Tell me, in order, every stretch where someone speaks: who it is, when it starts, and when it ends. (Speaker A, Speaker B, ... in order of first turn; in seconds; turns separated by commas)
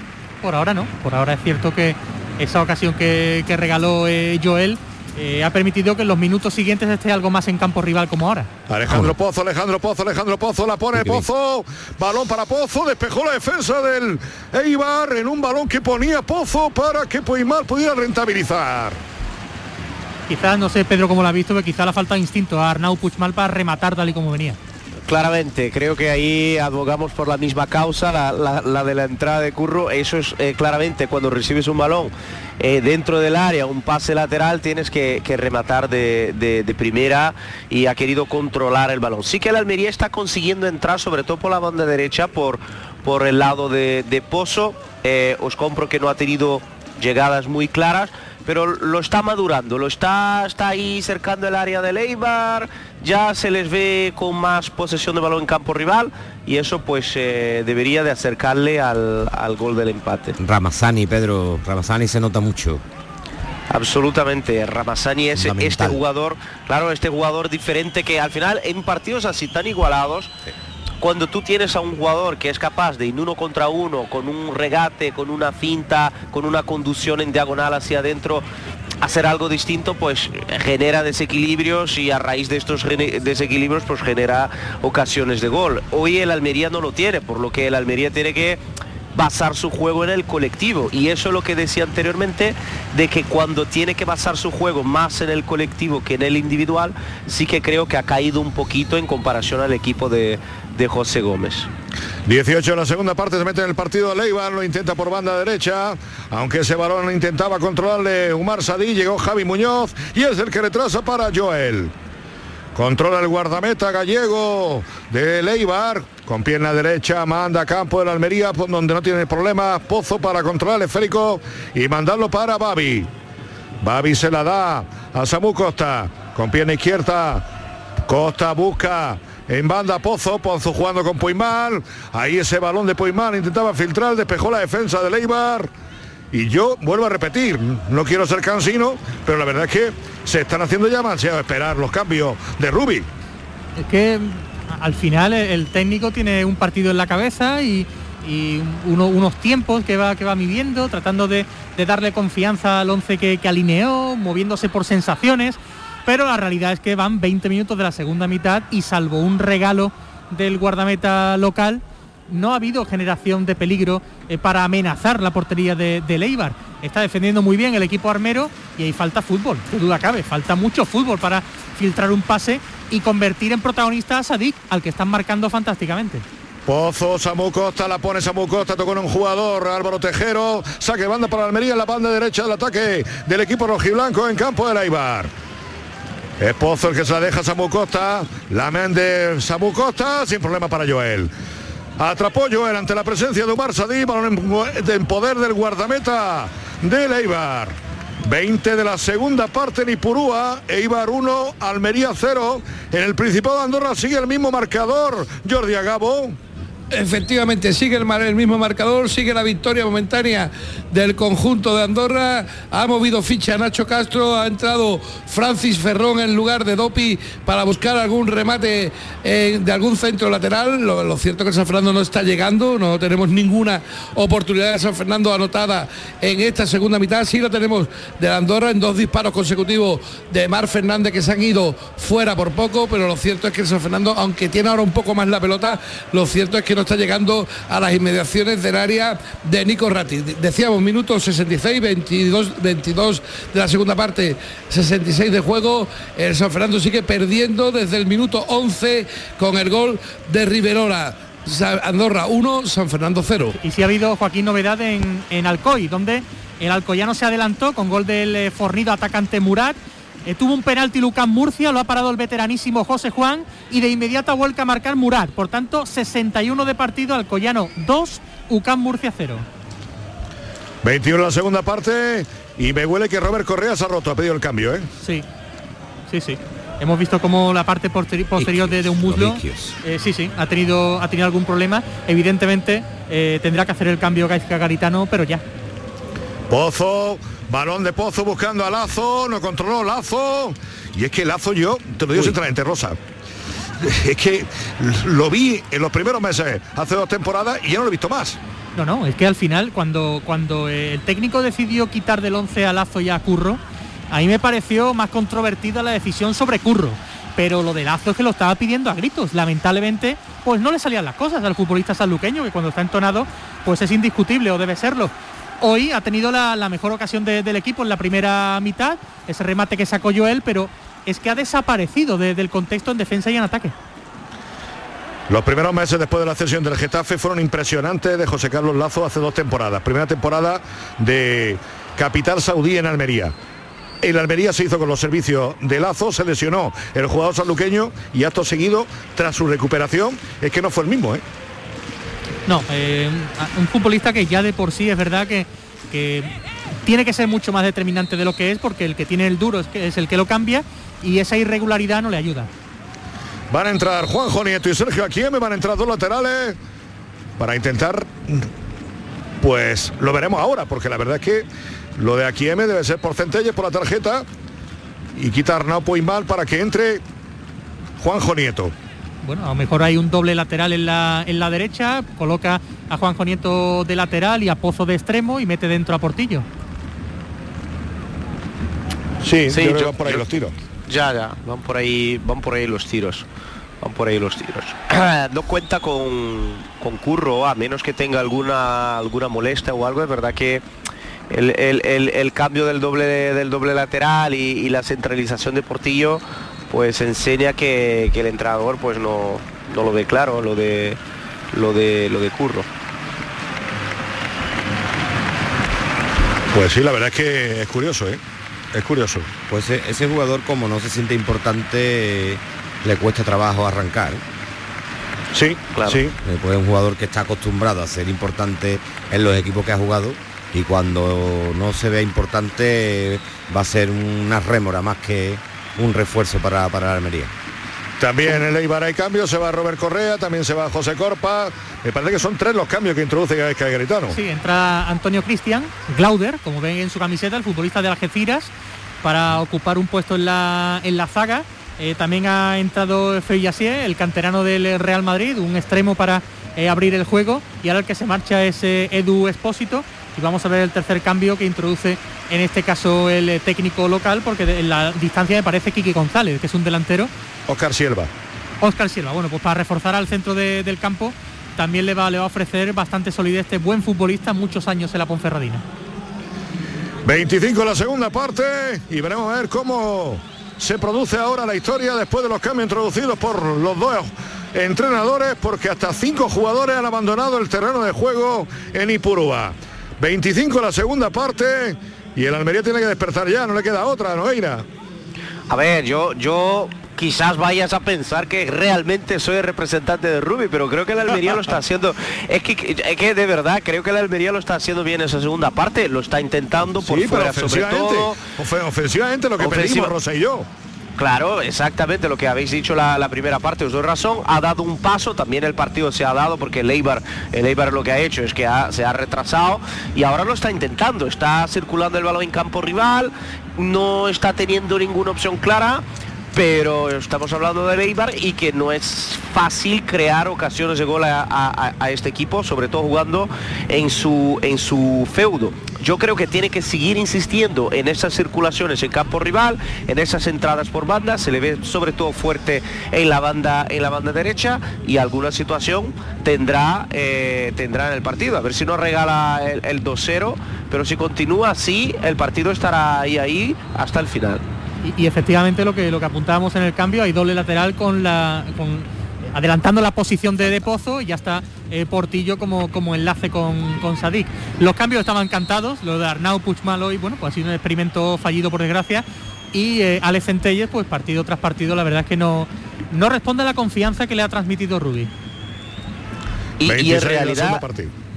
Speaker A: 0.4-8.5, Speaker B: 8.7-19.0, Speaker C: 8.9-9.1, Speaker C: 10.9-11.3, Speaker A: 20.3-24.6, Speaker D: 25.1-60.4, Speaker C: 60.4-62.8, Speaker D: 63.7-70.3, Speaker C: 65.3-66.0, Speaker D: 71.0-78.4, Speaker D: 79.0-88.6, Speaker D: 89.1-101.7, Speaker B: 102.3-111.9, Speaker B: 112.8-123.1, Speaker B: 123.8-127.5, Speaker B: 128.1-135.7, Speaker B: 136.3-143.1, Speaker A: 143.8-176.2, Speaker B: 176.7-185.3, Speaker B: 186.4-191.3, Speaker B: 192.0-206.4, Speaker E: 206.9-253.6, Speaker A: 253.6-269.5, Speaker B: 270.8-274.9, Speaker A: 275.0-275.3, Speaker A: 276.1-285.4, Speaker C: 278.4-279.8, Speaker B: 286.5-293.0, Speaker B: 293.8-298.4, Speaker A: 298.8-303.6, Speaker A: 304.1-323.7, Speaker B: 325.3-333.3, Speaker B: 334.0-341.2, Speaker A: 342.5-352.5, Speaker B: 353.5-356.6, Speaker B: 357.4-358.5, Speaker B: 359.4-361.5, Speaker B: 362.0-364.3, Speaker B: 365.1-367.0, Speaker B: 368.0-368.7, Speaker A: 369.2-376.5, Speaker B: 379.2-380.5, Speaker D: 379.5-380.3, Speaker D: 380.9-383.2, Speaker D: 383.8-390.6, Speaker D: 391.3-401.0, Speaker D: 401.5-402.7, Speaker B: 406.5-408.2, Speaker B: 408.7-409.3, Speaker C: 409.5-414.2, Speaker B: 415.3-416.1, Speaker D: 415.7-416.0, Speaker C: 416.2-427.3, Speaker B: 428.0-434.2, Speaker A: 434.1-438.5, Speaker A: 439.0-457.1, Speaker B: 457.5-458.1, Speaker A: 458.6-465.6, Speaker B: 467.1-484.7, Speaker D: 485.5-498.2, Speaker B: 496.8-500.5, Speaker D: 499.4-499.9, Speaker D: 501.0-544.4, Speaker A: 544.8-565.1, Speaker D: 566.6-567.6, Speaker B: 566.6-567.9